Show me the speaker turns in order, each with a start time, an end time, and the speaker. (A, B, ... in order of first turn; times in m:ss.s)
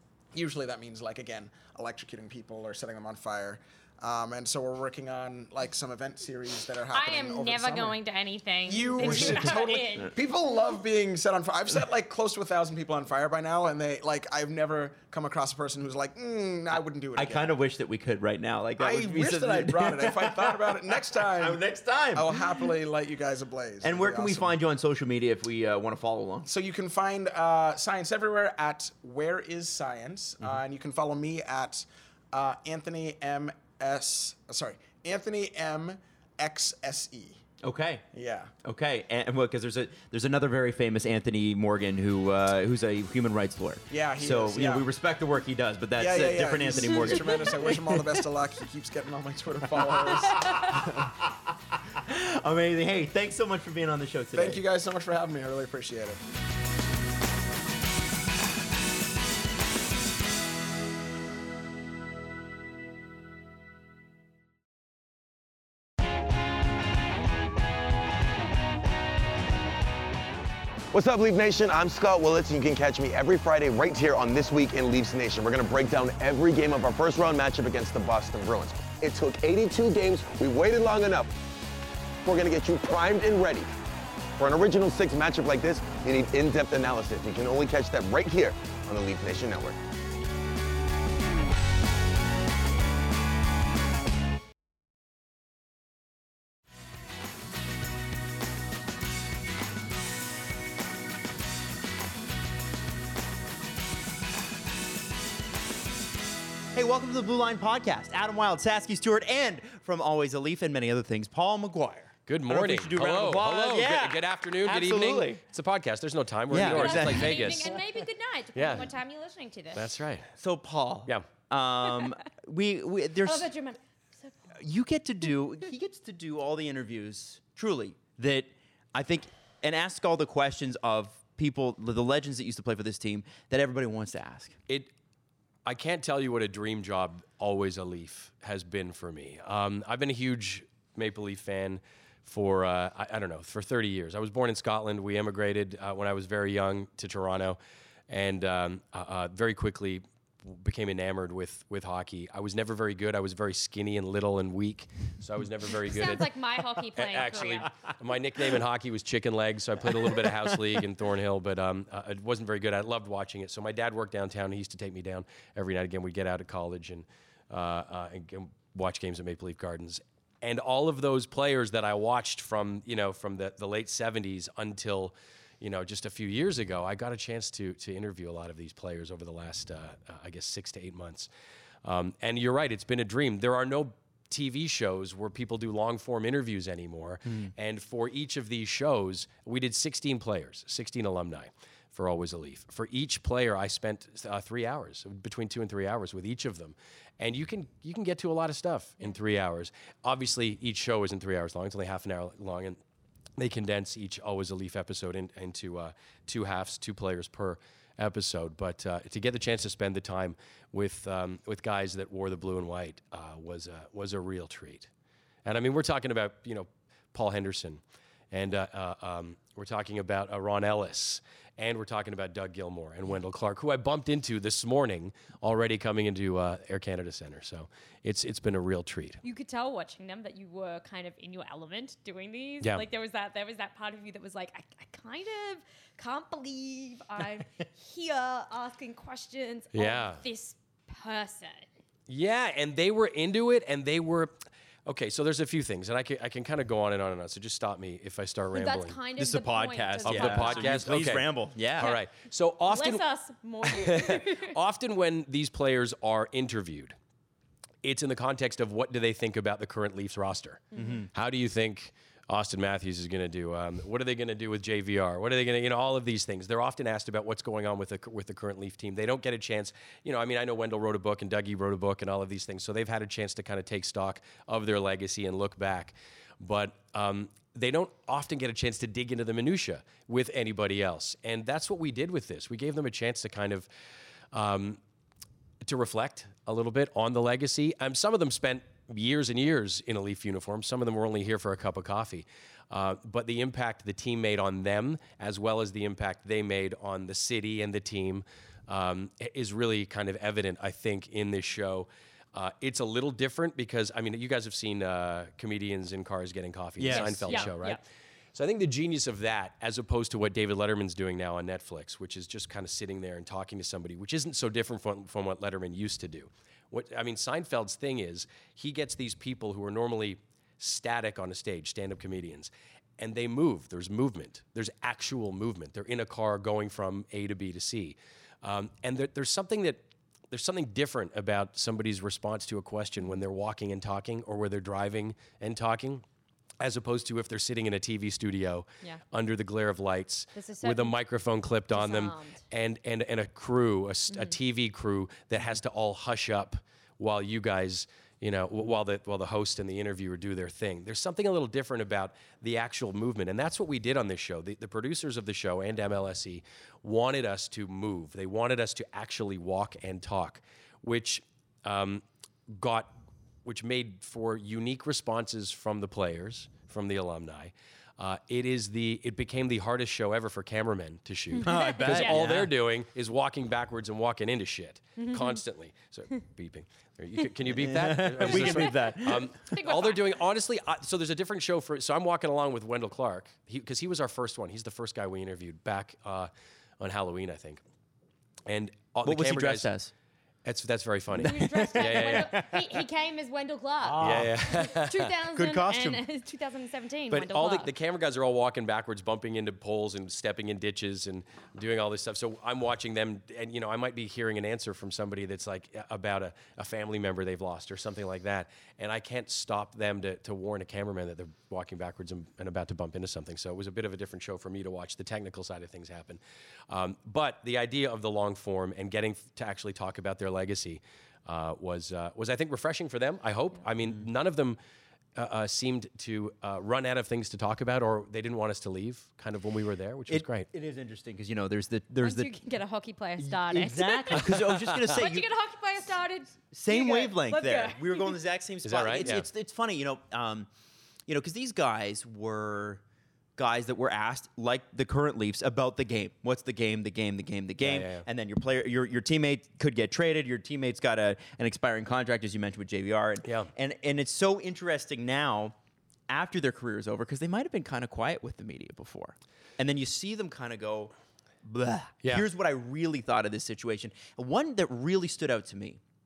0:00.3-0:08.0 A
0:06.9-0:10.1 B
0:08.6-0:17.5 A
0:09.0-0:09.6 C
0:17.2-0:22.7 C
0:18.8-0:21.6 A
0:22.1-0:24.5 A
0:23.8-0:26.5 C
0:26.4-0:37.4 A
0:37.6-0:38.0 C
0:38.1-0:38.5 A
0:38.6-0:48.2 C
0:43.9-0:44.8 A
0:46.0-0:51.1 A
0:46.8-0:47.4 B
0:49.7-0:54.6 C
0:54.3-0:56.2 A
1:10.9-1:21.3 D
1:22.2-1:23.7 D
1:24.4-1:29.8 D
1:46.7-1:55.4 C
1:52.3-1:57.7 E
1:56.5-1:57.7 C
1:56.6-1:59.9 B
1:58.5-1:58.9 E
1:59.7-2:00.3 E
2:00.4-2:03.5 C
2:03.2-2:04.3 B
2:04.5-2:14.6 C
2:15.6-2:36.3 E
2:35.8-2:37.7 B
2:36.9-3:01.3 E
2:40.0-2:40.5 C
3:01.8-3:22.8 E
3:23.4-3:34.9 E
3:35.4-3:49.2 E
3:49.2-4:01.7 B
3:59.7-4:00.2 E
4:02.1-4:09.0 E
4:08.5-4:11.0 B
4:09.2-4:11.9 C
4:10.0-4:13.0 E
4:12.7-4:14.5 B
4:13.6-4:17.0 E
4:17.8-4:43.7 E
4:20.7-4:21.0 B
4:20.8-4:21.1 C
4:44.3-4:44.8 E
4:45.6-5:07.8 E
5:06.8-5:07.5 C
5:06.9-5:07.8 B
5:08.3-5:36.0 E
5:36.6-6:02.9 E
5:40.3-5:40.9 B
5:41.7-5:42.4 B
6:03.4-6:27.6 E
6:11.3-6:12.2 B
6:11.4-6:12.5 C
6:15.0-6:15.4 B
6:17.4-6:19.3 C
6:18.3-6:20.1 B
6:28.4-6:29.7 E
6:29.0-6:29.9 C
6:30.4-6:32.3 E
6:31.1-6:32.6 C
6:31.2-6:37.7 B
6:33.8-6:34.6 C
6:34.0-6:35.1 E
6:35.3-6:36.0 C
6:37.1-7:04.6 E
7:05.1-7:10.5 E
7:10.1-7:12.3 C
7:12.0-7:14.4 B
7:13.2-7:15.3 C
7:14.9-7:18.1 B
7:16.5-7:20.5 C
7:18.6-7:19.2 E
7:21.1-7:22.8 C
7:23.4-7:35.5 C
7:27.6-7:28.0 E
7:36.1-7:40.9 C
7:41.4-7:45.8 C